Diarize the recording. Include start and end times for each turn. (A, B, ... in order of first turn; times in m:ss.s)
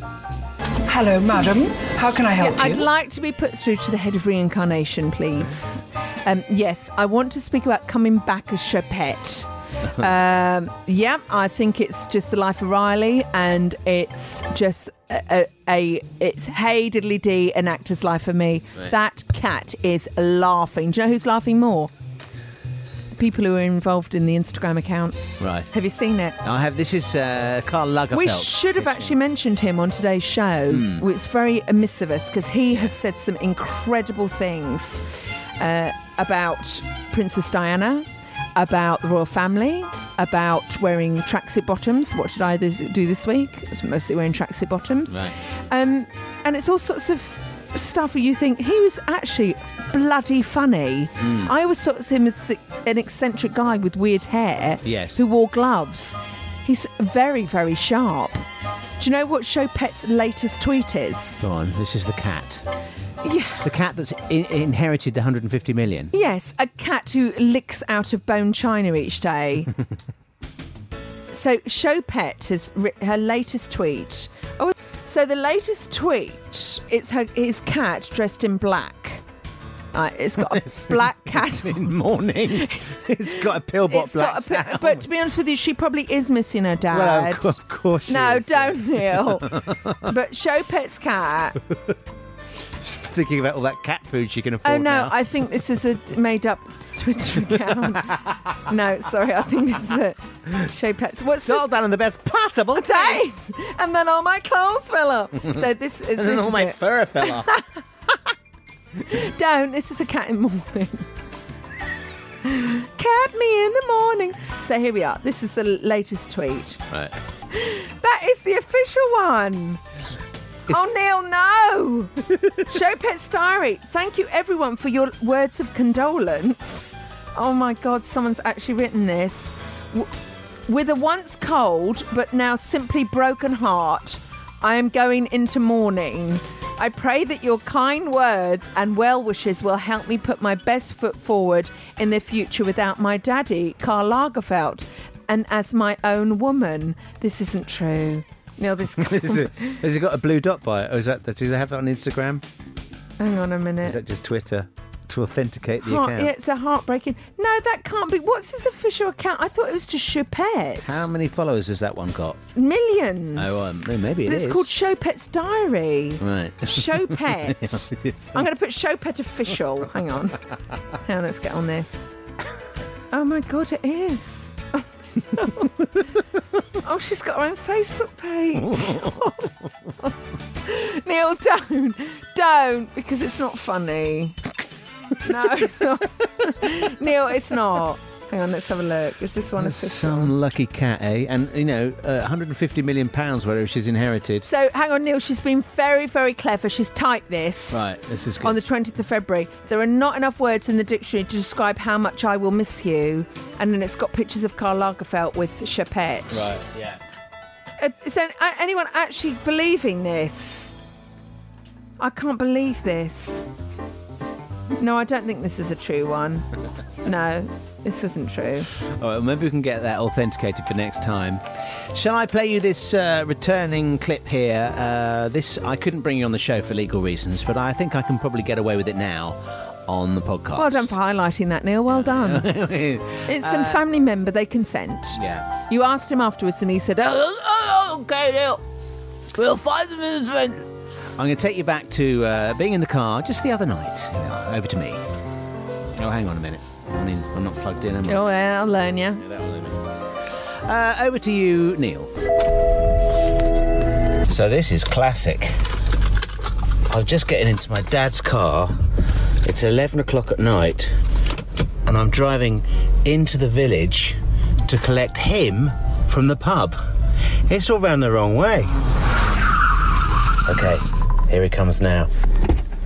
0:00.8-0:02.9 A
0:02.4-0:21.9 B
0:23.2-0:26.4 B
0:25.4-0:25.7 C
0:26.4-0:29.1 C
0:28.1-0:35.0 B
0:30.7-0:31.0 C
0:35.6-0:58.4 B
0:45.1-0:45.3 C
0:51.2-0:51.5 C
0:54.8-0:55.2 C
0:59.0-1:01.4 B
1:01.4-1:02.6 C
1:03.2-1:03.6 B
1:03.6-1:06.1 C
1:06.1-1:09.7 B
1:11.3-1:19.2 B
1:19.9-1:21.9 B
1:20.4-1:25.0 C
1:22.5-1:23.0 B
1:23.9-1:29.5 B
1:26.9-1:30.0 C
1:30.0-1:31.6 B
1:31.6-1:31.9 C
1:32.8-1:35.1 C
1:34.6-1:41.6 B
1:41.4-1:43.2 C
1:42.7-1:47.6 B
1:46.1-1:47.6 C
1:49.1-1:51.0 B
1:52.4-1:56.8 B
1:57.5-1:59.8 B
2:00.7-2:10.1 B
2:10.7-2:29.8 B
2:29.0-2:32.4 C
2:33.2-2:34.0 B
2:33.8-2:36.3 C
2:35.8-2:41.0 B
2:40.8-2:42.4 C
2:42.5-2:50.4 B
2:43.4-2:44.7 C
2:46.2-2:48.4 C
2:51.0-2:52.1 B
2:53.1-2:55.7 B
2:56.8-2:59.5 B
2:58.7-2:59.1 C
3:00.6-3:04.4 B
3:05.2-3:10.3 B
3:09.6-3:14.5 C
3:14.4-3:17.9 B
3:17.7-3:18.6 C
3:18.4-3:26.5 B
3:26.3-3:27.0 C
3:27.8-3:30.8 B
3:32.0-3:33.5 B
3:34.8-3:36.4 B
3:37.0-3:38.7 B
3:38.8-3:41.4 C
3:41.9-3:50.9 C
3:50.6-3:52.5 B
3:51.9-3:53.8 C
3:53.3-3:58.6 B
3:55.2-3:55.5 C
3:59.3-4:00.6 B
4:01.2-4:05.0 C
4:05.9-4:08.2 C
4:08.1-4:09.2 B
4:09.2-4:09.8 C
4:10.6-4:12.1 C
4:14.3-4:15.6 C
4:16.9-4:18.8 C
4:19.4-4:20.9 C
4:21.8-4:26.8 C
4:27.5-4:28.7 C
4:30.4-4:32.1 C